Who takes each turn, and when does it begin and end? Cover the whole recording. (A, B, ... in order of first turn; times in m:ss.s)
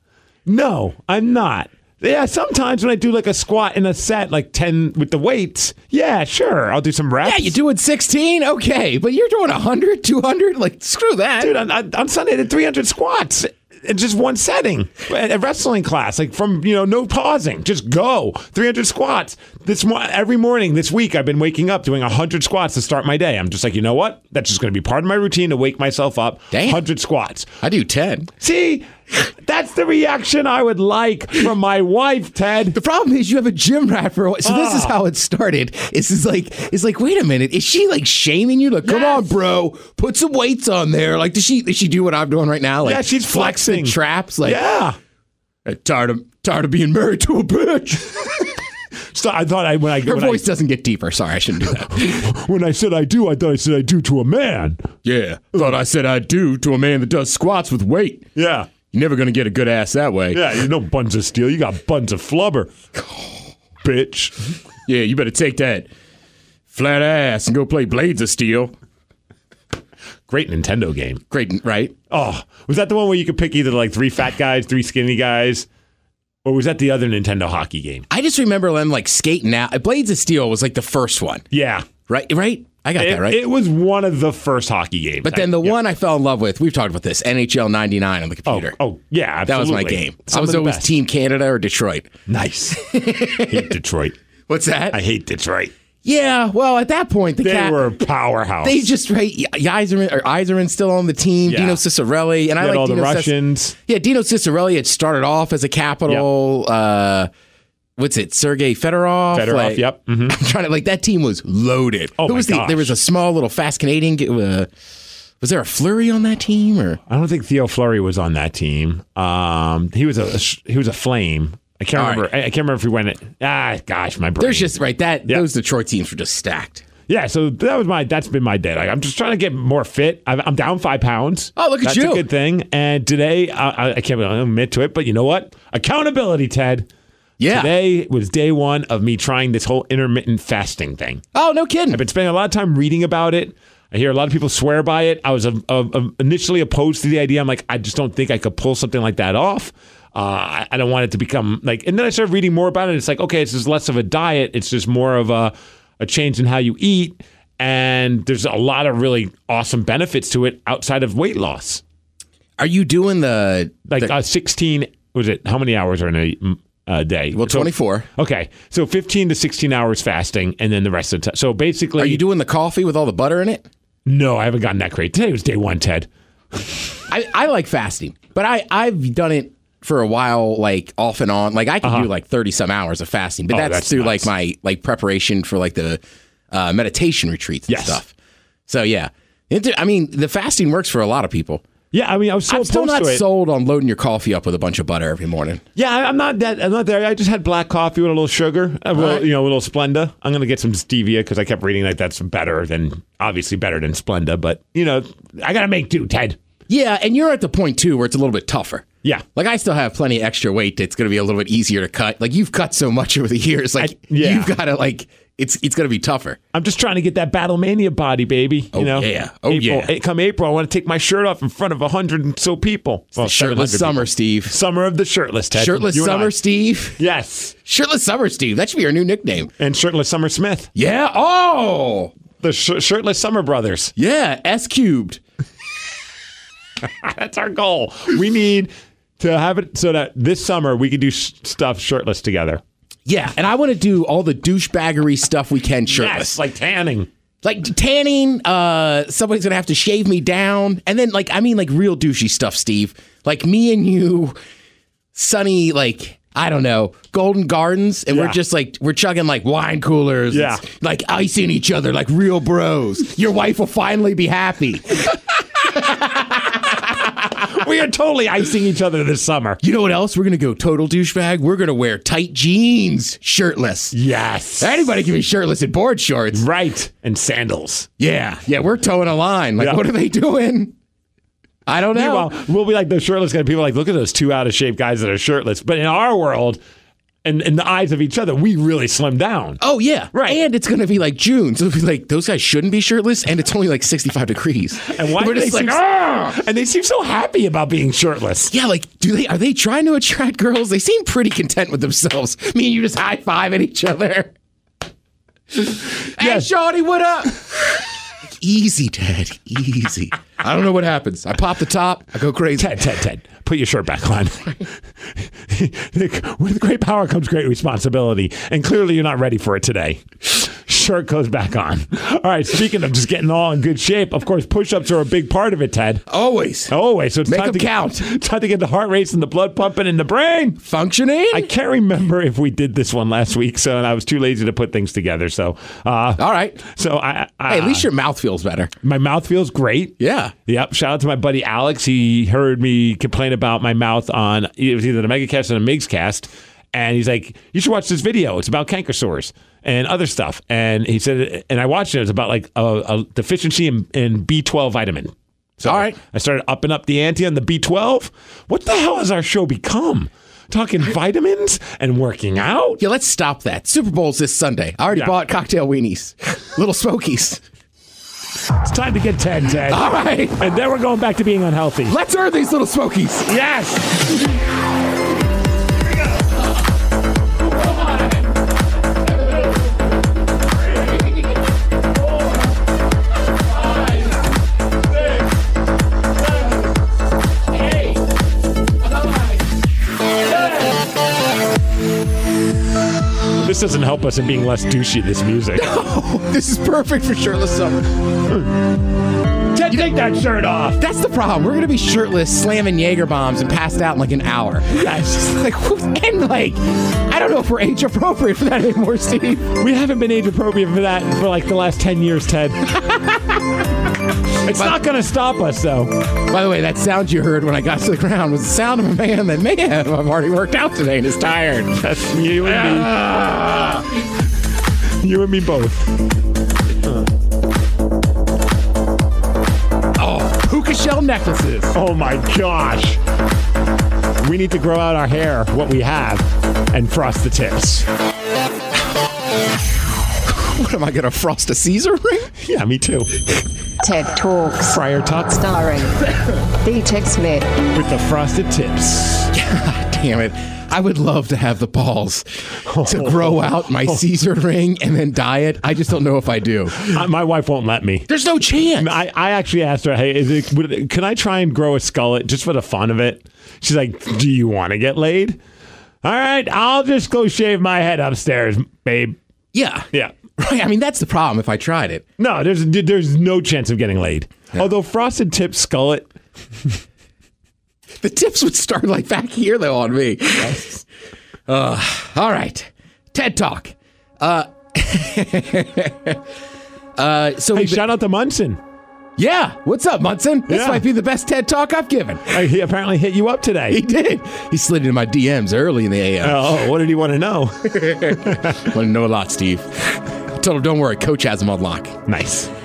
0:00.5-0:07.6 A
0:07.2-0:11.5 B
0:11.4-0:27.5 A
0:26.5-0:26.8 B
0:27.6-0:28.3 B
0:28.4-0:32.8 A
0:32.7-0:44.6 B
0:34.4-0:35.0 A
0:38.8-0:39.3 A
0:42.8-0:45.0 A
0:45.6-0:48.5 B
0:49.1-0:50.4 A
0:50.0-0:52.1 B
0:51.9-0:54.9 A
0:55.0-0:58.3 B
0:58.4-0:58.7 A
0:58.9-1:00.6 B
1:00.3-1:02.7 A
1:03.0-1:03.3 B
1:03.8-1:04.3 A
1:04.9-1:05.9 B
1:06.7-1:08.7 B
1:10.3-1:11.2 A
1:11.3-1:11.9 B
1:12.1-1:15.7 A
1:16.4-1:18.0 A
1:18.1-1:21.5 B
1:21.5-1:21.9 A
1:22.1-1:23.4 B
1:23.0-1:25.8 A
1:25.2-1:28.8 B
1:28.5-1:30.9 A
1:29.4-1:32.1 B
1:32.3-1:32.8 A
1:32.8-1:33.7 B
1:33.4-1:34.2 A
1:34.5-1:35.0 B
1:34.9-1:35.7 A
1:36.0-1:37.9 B
1:37.4-1:38.9 A
1:38.6-1:47.3 B
1:41.5-1:41.8 A
1:42.6-1:43.8 A
1:48.0-1:54.7 B
1:49.3-1:50.4 A
1:52.2-1:53.0 A
1:55.4-1:57.0 B
1:57.1-2:04.8 A
2:02.0-2:02.3 B
2:04.4-2:06.9 B
2:07.1-2:16.9 A
2:11.6-2:12.2 B
2:17.4-2:17.7 B
2:17.5-2:21.2 A
2:21.3-2:22.0 B
2:21.9-2:41.8 A
2:42.6-2:44.1 B
2:43.9-2:52.2 A
2:47.4-2:48.1 B
2:52.0-2:53.7 B
2:54.1-2:56.8 A
2:57.1-3:08.1 B
3:01.8-3:02.1 A
3:03.5-3:04.3 A
3:07.7-3:08.0 A
3:08.7-3:11.6 B
3:11.9-3:13.2 A
3:12.5-3:15.6 B
3:15.8-3:26.4 A
3:18.9-3:19.3 B
3:26.7-3:36.4 B
3:33.8-3:34.5 A
3:36.5-3:46.4 A
3:38.7-3:39.9 B
3:43.2-3:44.6 B
3:45.5-3:47.0 B
3:47.0-3:47.6 A
3:47.6-3:49.5 B
3:49.6-3:50.7 A
3:50.8-3:52.1 B
3:52.4-3:53.9 A
3:54.0-3:55.2 B
3:56.8-4:02.6 A
4:03.1-4:06.4 B
4:05.9-4:07.1 A
4:07.4-4:14.4 B
4:15.1-4:27.1 B
4:18.1-4:18.4 A
4:20.3-4:20.6 A
4:27.4-4:29.6 A
4:29.6-4:34.0 B
4:33.9-4:34.9 A
4:34.6-4:36.5 B
4:36.3-4:37.9 A
4:38.0-4:40.7 B
4:39.6-4:39.8 A
4:41.7-4:42.3 B
4:41.9-4:46.6 A
4:47.2-4:49.6 A
4:49.6-4:56.4 B
4:50.1-4:50.4 A
4:54.8-4:58.5 A
4:58.5-5:04.3 B
5:05.5-5:07.6 B
5:06.2-5:06.5 A
5:08.4-5:12.8 B
5:12.6-5:26.0 A
5:26.1-5:26.7 B
5:26.7-5:30.6 A
5:27.2-5:28.0 B
5:30.6-5:31.5 B
5:31.3-5:37.9 A
5:36.2-5:36.6 B
5:37.5-5:38.7 B
5:38.8-6:02.8 A
5:40.0-5:40.3 B
5:55.6-5:56.0 B
6:02.8-6:07.4 B
6:08.6-6:12.0 A
6:09.7-6:10.5 B
6:11.9-6:13.3 B
6:13.3-6:14.1 A
6:17.4-6:18.3 B
6:20.7-6:21.2 B
6:27.6-6:28.0 A
6:29.0-6:29.3 B
6:30.3-6:30.7 A
6:33.4-6:35.7 A
6:35.6-6:37.9 B
6:39.5-6:40.8 A
6:40.8-6:49.6 B
6:44.7-6:45.3 A
6:49.6-6:52.7 A
6:52.8-6:53.4 B
6:54.4-6:56.1 A
6:56.2-7:01.8 B
7:01.8-7:02.9 A
7:02.4-7:03.9 B
7:05.0-7:05.9 A
7:10.0-7:11.8 B
7:11.7-7:13.0 A
7:14.2-7:17.9 A
7:20.3-7:22.3 B
7:22.4-7:23.2 A
7:23.8-7:26.0 C
7:24.6-7:25.4 A
7:26.6-7:27.5 C
7:27.7-7:29.3 A
7:29.3-7:32.3 B
7:32.7-7:34.0 A
7:32.8-7:36.9 B
7:36.8-7:38.1 A
7:38.1-7:39.0 B
7:38.8-7:45.4 A
7:46.0-7:49.2 A
7:49.5-7:52.0 B
7:52.2-7:56.1 A
7:58.0-8:00.8 B
8:01.5-8:06.2 B
8:07.0-8:07.8 B
8:07.5-8:08.6 A
8:09.2-8:12.4 B
8:10.5-8:10.8 A
8:12.3-8:13.8 A
8:13.7-8:16.5 B
8:16.2-8:18.6 A
8:17.7-8:22.0 B
8:22.1-8:22.5 A